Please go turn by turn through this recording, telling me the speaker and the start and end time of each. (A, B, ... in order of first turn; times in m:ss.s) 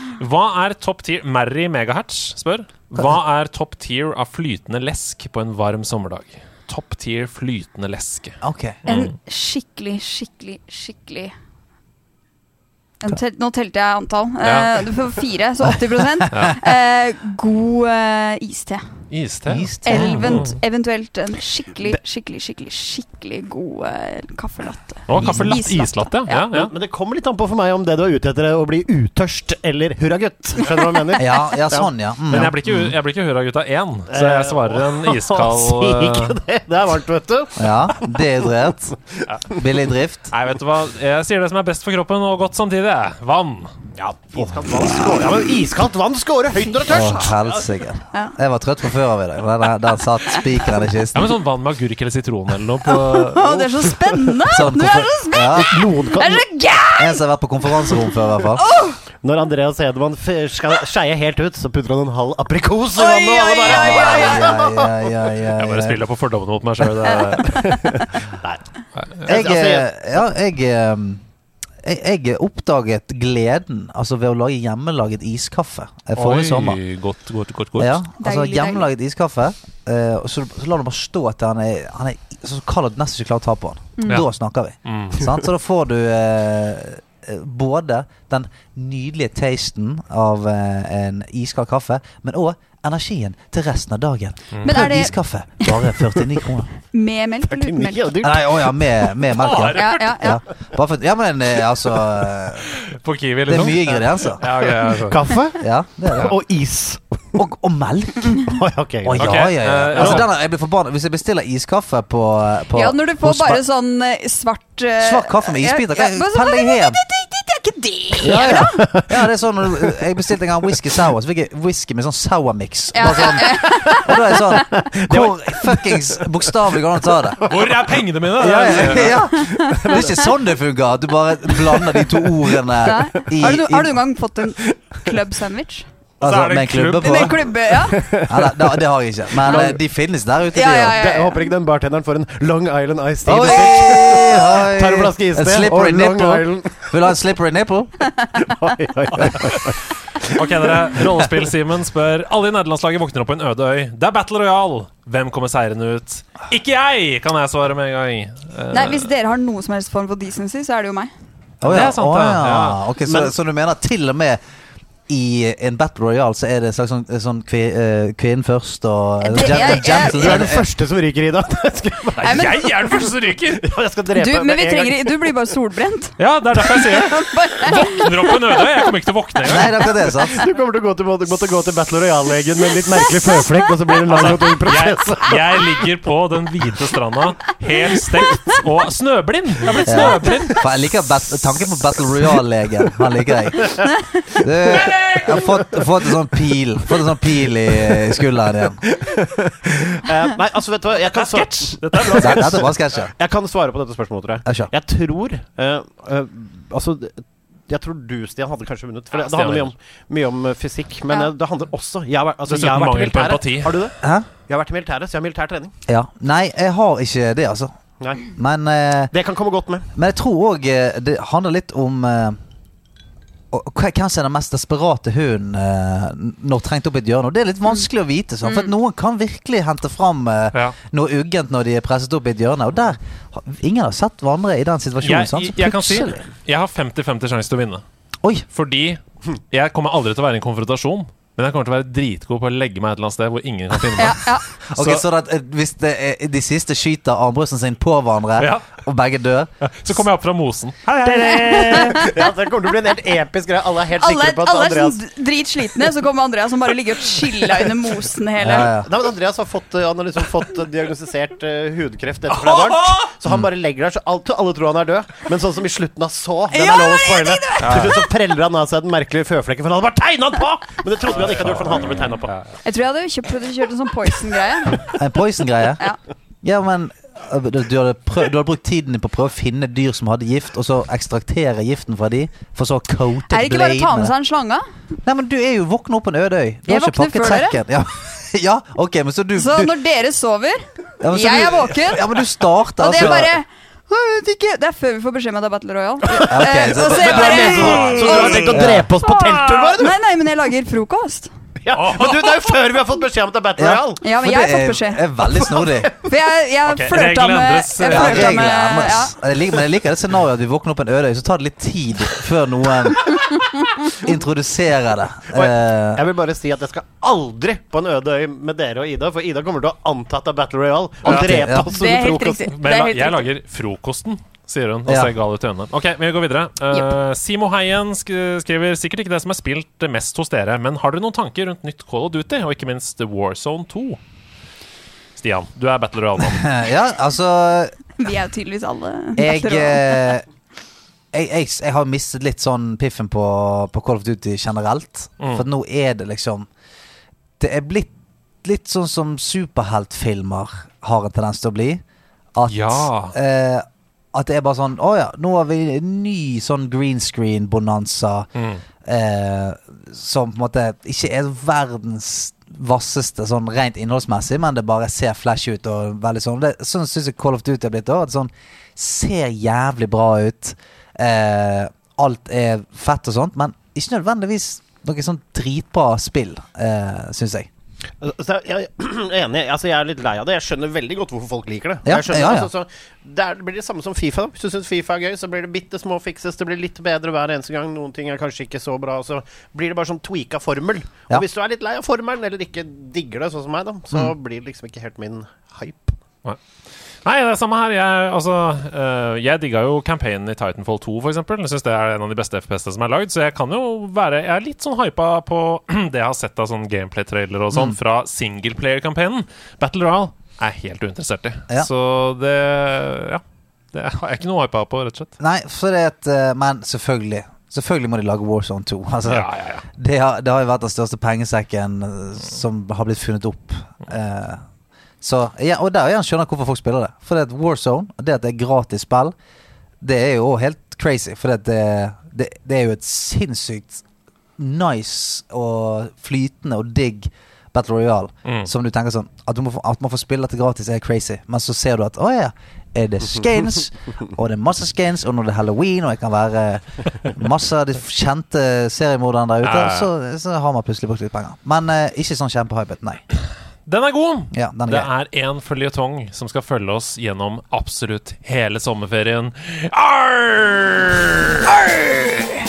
0:00.2-0:09.2 A
0:08.4-0:08.8 B
0:08.9-0:11.3 C
0:13.0-0:18.8 C
0:14.4-0:14.9 A
0:15.7-0:16.3 B
0:16.3-0:16.6 A
0:19.1-0:20.6 A
0:19.5-0:20.5 B
0:19.8-0:26.5 C
0:25.1-0:26.7 A
0:25.2-0:25.6 B
0:26.5-0:31.9 D
0:31.2-0:32.9 B
0:32.3-0:36.4 A
0:34.1-0:39.8 D
0:37.6-0:39.0 B
0:39.5-0:40.3 B
0:40.3-0:43.7 A
0:44.0-0:47.6 D
0:46.9-0:51.4 B
0:51.1-0:53.8 A
0:52.9-0:57.2 C
0:54.5-0:55.8 B
0:55.5-0:56.5 D
0:57.0-0:58.7 B
0:58.6-0:59.0 C
0:59.2-1:05.1 D
1:03.0-1:04.6 C
1:03.6-1:06.0 B
1:05.6-1:07.5 A
1:07.1-1:07.6 C
1:07.4-1:08.6 D
1:09.0-1:09.3 A
1:09.3-1:10.2 D
1:09.3-1:11.2 B
1:11.8-1:16.8 B
1:16.2-1:18.0 A
1:17.8-1:36.7 B
1:18.2-1:18.9 C
1:24.0-1:24.2 C
1:24.8-1:25.2 A
1:34.5-1:34.8 A
1:34.6-1:35.9 C
1:36.9-1:38.2 C
1:37.5-1:38.6 D
1:38.2-1:42.7 B
1:39.4-1:40.2 A
1:39.8-1:40.4 C
1:42.7-1:45.3 A
1:43.5-1:44.4 B
1:44.4-1:47.4 D
1:45.6-1:46.3 B
1:47.4-1:48.4 B
1:48.4-1:50.2 D
1:49.0-1:53.6 B
1:49.2-1:50.3 A
1:52.7-1:58.8 C
1:55.0-1:57.0 B
1:58.2-2:07.5 B
1:58.2-1:59.3 D
2:02.9-2:04.6 C
2:03.1-2:06.8 D
2:07.4-2:10.3 D
2:07.5-2:09.2 A
2:08.4-2:14.0 B
2:09.4-2:10.1 C
2:11.5-2:13.2 D
2:12.8-2:15.9 C
2:14.5-2:15.1 D
2:16.2-2:17.4 A
2:16.2-2:17.5 B
2:17.0-2:18.1 C
2:17.8-2:18.8 D
2:18.2-2:21.0 B
2:19.4-2:19.8 D
2:20.5-2:21.5 C
2:20.9-2:27.0 D
2:23.2-2:28.0 B
2:28.4-2:30.3 D
2:30.3-2:39.1 A
2:38.7-2:41.1 C
2:41.6-2:44.4 B
2:41.6-2:42.8 A
2:43.1-2:43.3 D
2:45.1-2:50.7 B
2:49.2-2:50.5 C
2:49.9-2:52.6 D
2:52.2-2:53.7 A
2:52.2-2:53.0 C
2:53.6-2:55.3 D
2:54.1-2:58.8 C
2:56.2-2:59.8 A
2:59.4-3:00.4 B
3:00.0-3:05.8 D
3:03.1-3:03.7 C
3:04.1-3:10.6 A
3:09.9-3:13.8 B
3:13.6-3:13.9 D
3:14.4-3:18.8 B
3:14.7-3:15.4 A
3:14.8-3:15.8 D
3:17.8-3:18.2 D
3:18.8-3:35.7 D
3:21.1-3:22.6 A
3:22.2-3:23.1 B
3:24.4-3:24.7 B
3:29.1-3:29.7 A
3:32.5-3:33.9 A
3:34.0-3:34.3 B
3:35.9-3:37.7 B
3:38.0-3:38.2 D
3:38.3-3:39.1 B
3:39.1-3:39.9 D
3:40.0-3:42.4 B
3:43.5-3:56.2 B
3:48.4-3:48.7 C
3:55.0-3:57.8 A
3:58.5-4:04.2 A
4:04.0-4:04.5 C
4:04.7-4:09.5 B
4:04.7-4:05.0 A
4:08.4-4:08.7 A
4:09.6-4:12.1 A
4:11.1-4:12.3 C
4:11.5-4:15.0 D
4:14.0-4:18.7 C
4:18.4-4:18.9 B
4:18.5-4:32.3 D
4:22.3-4:23.1 A
4:26.5-4:28.1 C
4:27.6-4:28.0 A
4:31.3-4:32.5 A
4:32.6-4:34.9 C
4:34.8-4:35.8 B
4:36.4-4:44.1 B
4:43.3-4:44.6 C
4:45.0-4:49.7 B
4:46.7-4:47.6 C
4:49.4-4:52.2 C
4:51.0-4:53.4 B
4:52.8-5:01.3 C
4:56.2-5:00.0 D
4:56.2-4:58.9 B
4:57.6-4:58.3 A
5:01.6-5:04.0 D
5:01.7-5:02.5 A
5:03.6-5:06.0 B
5:04.0-5:05.1 C
5:05.5-5:05.9 D
5:06.0-5:09.2 C
5:06.7-5:08.4 A
5:07.8-5:13.3 B
5:13.9-5:16.0 B
5:15.3-5:22.5 D
5:21.0-5:21.4 A
5:21.1-5:21.7 B
5:21.6-5:23.3 C
5:22.5-5:34.0 A
5:24.9-5:25.1 B
5:35.2-5:36.5 A
5:36.2-5:37.8 B
5:38.0-5:40.2 C
5:39.2-5:40.2 B
5:41.1-5:46.5 B
5:45.2-5:45.4 A
5:47.4-5:47.9 B
5:48.4-5:51.8 B
5:52.4-5:58.3 B
5:52.5-5:53.2 A
5:58.4-5:58.6 A
5:58.8-6:17.5 B
6:18.0-6:36.0 D
6:21.8-6:22.5 B
6:37.0-6:53.2 A
6:47.5-6:47.8 B
6:53.7-6:55.1 A
6:55.2-7:04.4 B
6:59.0-6:59.6 A
7:05.0-7:09.2 B
7:09.8-7:13.8 B
7:14.4-7:33.0 B
7:18.2-7:18.5 A
7:29.4-7:29.9 A
7:33.7-7:42.1 A
7:34.3-7:34.9 B